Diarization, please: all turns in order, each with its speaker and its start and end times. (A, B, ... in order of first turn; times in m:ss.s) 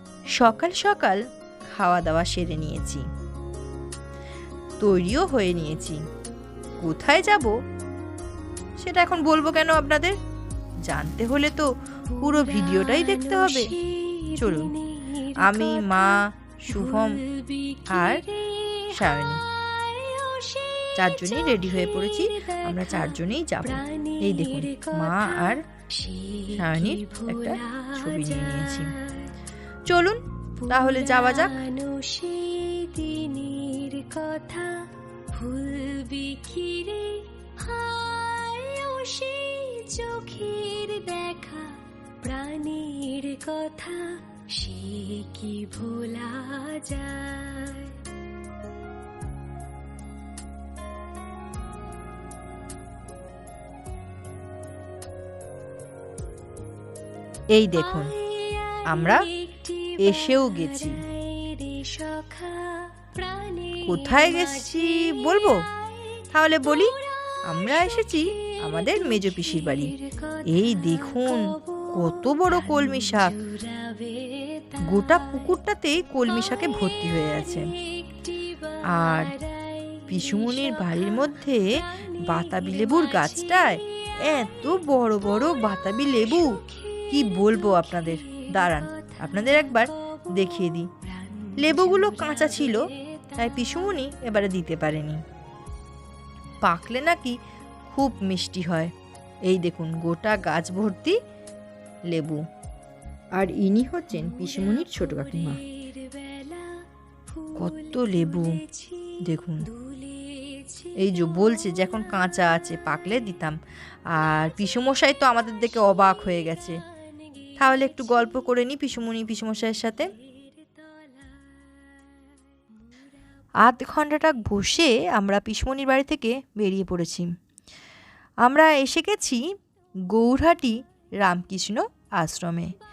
0:00.4-0:01.2 A
0:01.7-0:03.0 A
0:04.8-0:06.0 A
0:06.8-0:07.5 A
0:08.8-0:10.2 A
0:10.8-0:13.8 A
0:12.1-0:23.2 B
0:14.3-0:14.8 A
0:15.4-0:17.2 A
0:17.9-0:18.3 A
0:18.8-0:19.4 A
0:20.9-0:25.6 A
0:23.8-0:29.3 B
0:26.5-0:29.0 A
0:29.9-0:31.6 A
0:30.6-0:48.0 B
0:57.5-0:58.1 A
0:58.0-1:06.2 B
0:58.8-0:59.3 A
1:00.0-1:01.0 A
1:03.8-1:05.7 A
1:06.3-1:13.4 A
1:06.9-1:15.4 B
1:14.8-1:17.7 A
1:16.4-1:24.8 B
1:18.9-1:19.4 A
1:20.1-1:30.9 A
1:25.4-1:30.4 B
1:31.0-1:33.8 B
1:31.6-1:35.2 A
1:36.6-1:37.4 A
1:37.9-1:38.9 A
1:39.5-1:41.2 A
1:42.1-1:42.4 A
1:43.3-1:45.6 A
1:44.2-1:51.0 B
1:47.6-1:48.6 A
1:49.2-1:49.7 A
1:50.9-1:53.6 A
1:54.1-1:56.8 A
1:57.6-2:00.1 A
2:00.2-2:02.2 B
2:03.6-2:07.3 A
2:08.4-2:09.4 A
2:10.1-2:12.8 A